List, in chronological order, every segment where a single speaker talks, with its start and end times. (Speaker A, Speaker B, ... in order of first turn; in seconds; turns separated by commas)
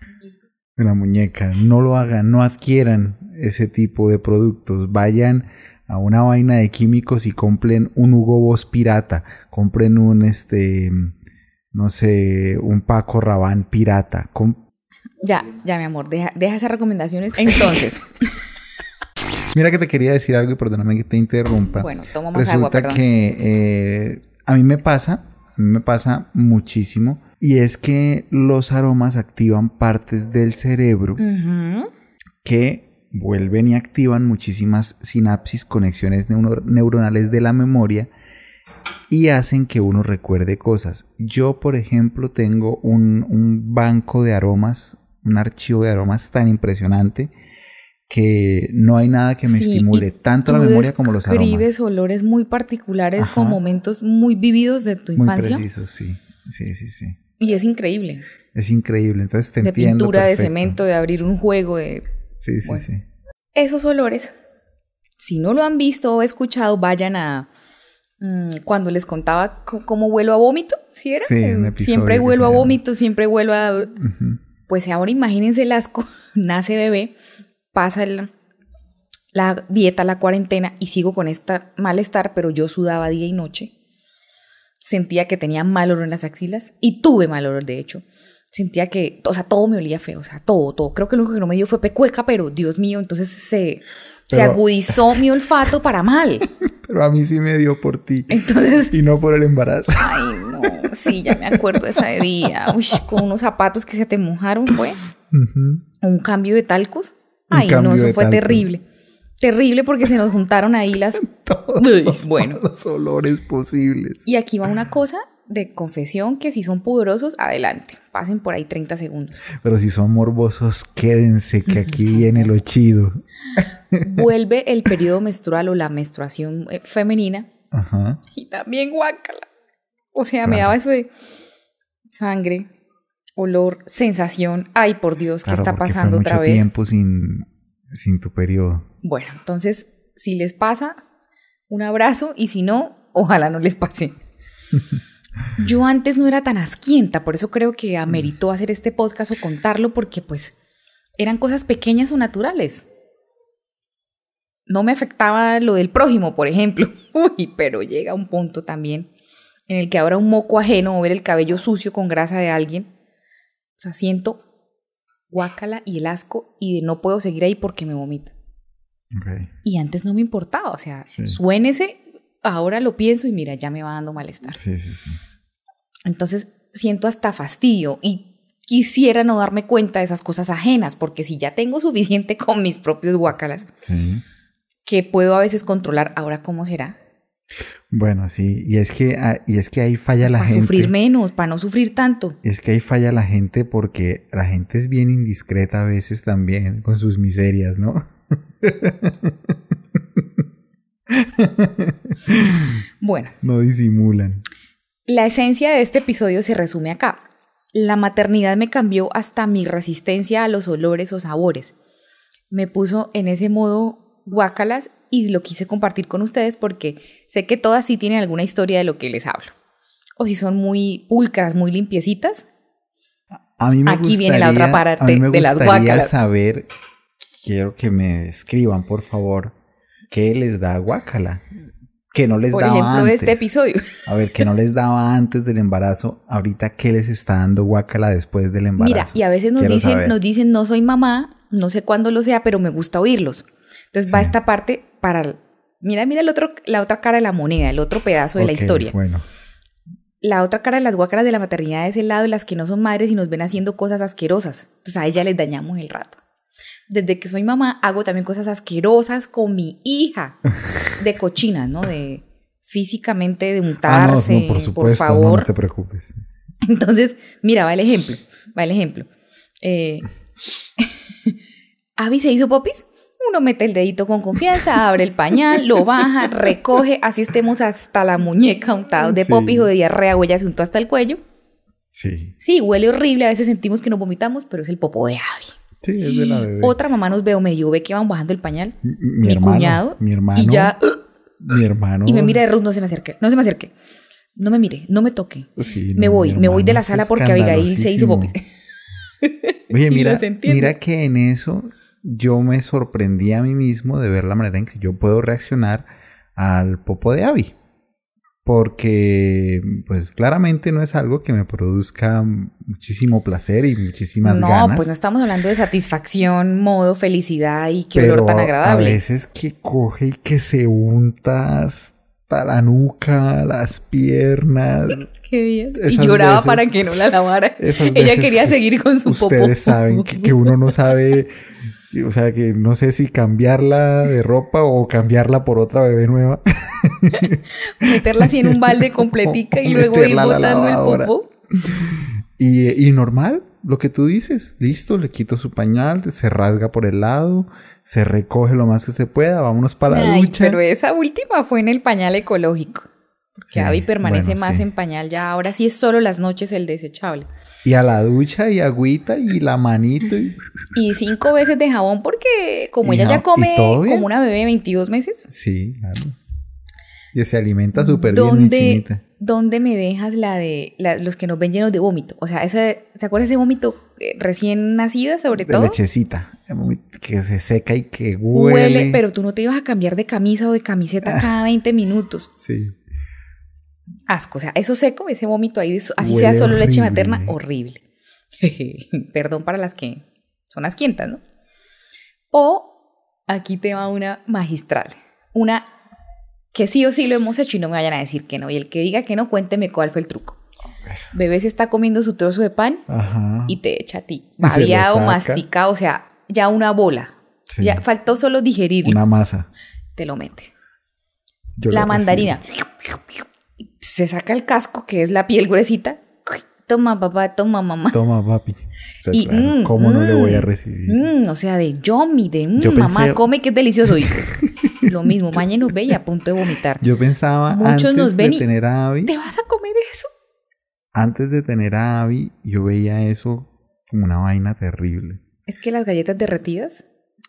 Speaker A: 0.8-11.1, Speaker A: 11.7-14.6, Speaker B: 15.2-18.1, Speaker A: 19.5-31.2, Speaker B: 21.8-23.0, Speaker B: 31.2-31.9, Speaker A: 32.4-38.1, Speaker A: 39.1-47.3, Speaker A: 48.1-51.7, Speaker B: 49.5-55.6, Speaker A: 53.2-53.6, Speaker A: 55.1-57.2, Speaker B: 57.4-58.2, Speaker A: 58.5-60.8, Speaker B: 59.6-62.0, Speaker A: 62.4-63.0, Speaker B: 63.5-64.3, Speaker B: 65.2-67.5, Speaker B: 68.2-74.0, Speaker A: 71.2-72.8, Speaker A: 74.0-74.4, Speaker B: 74.7-77.1, Speaker B: 77.7-78.3, Speaker B: 79.3-83.7, Speaker B: 84.8-96.5, Speaker A: 94.3-95.0, Speaker A: 96.6-102.0, Speaker B: 98.3-98.9, Speaker B: 100.0-105.0, Speaker A: 102.7-103.0, Speaker A: 105.3-105.8, Speaker B: 106.0-108.8, Speaker A: 107.5-108.7, Speaker B: 109.4-111.2, Speaker A: 111.2-114.2, Speaker B: 111.8-112.6, Speaker B: 114.2-119.4, Speaker A: 119.6-124.3, Speaker B: 124.0-127.5, Speaker A: 127.7-128.2, Speaker B: 128.3-129.5, Speaker B: 130.1-131.2, Speaker A: 130.4-130.8, Speaker B: 132.1-132.7, Speaker B: 133.4-136.7, Speaker A: 135.4-138.9, Speaker B: 139.0-141.0, Speaker B: 141.7-144.1, Speaker B: 145.6-150.5, Speaker B: 151.2-152.8, Speaker B: 154.7-159.1, Speaker B: 159.7-162.9, Speaker B: 163.8-164.4, Speaker B: 165.3-168.3, Speaker A: 169.1-169.5, Speaker B: 169.6-174.6, Speaker A: 174.6-175.2, Speaker B: 176.1-183.7, Speaker A: 183.8-184.2, Speaker B: 184.8-186.9, Speaker A: 187.9-190.9, Speaker B: 190.2-192.4, Speaker A: 192.4-198.0, Speaker A: 198.6-199.6, Speaker A: 201.1-202.8, Speaker B: 203.0-203.3, Speaker A: 203.4-204.4, Speaker B: 205.1-207.2, Speaker B: 207.7-211.7, Speaker B: 212.5-219.5, Speaker B: 220.2-222.4, Speaker A: 223.6-226.7, Speaker B: 223.8-226.1, Speaker A: 227.3-229.5, Speaker A: 230.1-231.4, Speaker A: 232.1-233.5, Speaker B: 232.5-234.0, Speaker A: 234.0-240.2, Speaker B: 238.8-248.9, Speaker A: 244.1-244.3, Speaker A: 248.4-249.2, Speaker B: 250.2-256.2, Speaker B: 256.9-260.4, Speaker B: 260.9-265.5, Speaker A: 263.8-266.2, Speaker B: 266.6-269.1, Speaker B: 269.6-270.1, Speaker B: 270.8-271.3, Speaker B: 272.0-281.2, Speaker A: 279.0-279.7, Speaker A: 281.9-282.3, Speaker B: 282.4-291.0, Speaker A: 285.8-286.8, Speaker A: 288.8-290.8, Speaker A: 291.4-292.6, Speaker B: 292.1-293.7, Speaker B: 294.3-298.4, Speaker A: 295.6-298.3, Speaker B: 299.2-300.7, Speaker A: 299.7-307.5, Speaker A: 308.4-314.9, Speaker B: 314.2-319.0, Speaker A: 317.9-325.0, Speaker B: 324.9-330.6, Speaker A: 325.7-326.7, Speaker A: 327.6-331.3, Speaker A: 331.9-350.6, Speaker B: 337.2-341.3, Speaker B: 349.9-352.9, Speaker A: 353.4-354.6, Speaker B: 353.5-357.3, Speaker A: 357.6-360.4, Speaker B: 360.7-365.3, Speaker A: 362.8-364.1, Speaker A: 365.3-366.2, Speaker A: 367.1-369.0, Speaker B: 367.8-375.8, Speaker A: 375.3-379.0, Speaker B: 378.3-382.3, Speaker A: 382.4-382.8, Speaker B: 384.1-387.8, Speaker A: 386.0-387.4, Speaker B: 388.4-391.2, Speaker B: 392.3-392.8, Speaker B: 393.3-395.7, Speaker B: 396.5-400.4, Speaker B: 401.1-402.8, Speaker A: 402.9-403.6, Speaker B: 403.5-409.0, Speaker A: 404.4-405.4, Speaker A: 407.5-407.8, Speaker A: 408.8-409.5, Speaker B: 409.9-410.5, Speaker A: 411.6-412.4, Speaker B: 411.7-413.0, Speaker B: 413.6-418.0, Speaker A: 417.9-421.0, Speaker B: 419.1-424.3, Speaker A: 422.6-423.2, Speaker A: 424.0-425.1, Speaker B: 424.8-426.8, Speaker A: 426.8-429.1, Speaker B: 427.5-428.4, Speaker B: 429.1-430.1, Speaker A: 430.9-435.2, Speaker B: 435.5-436.8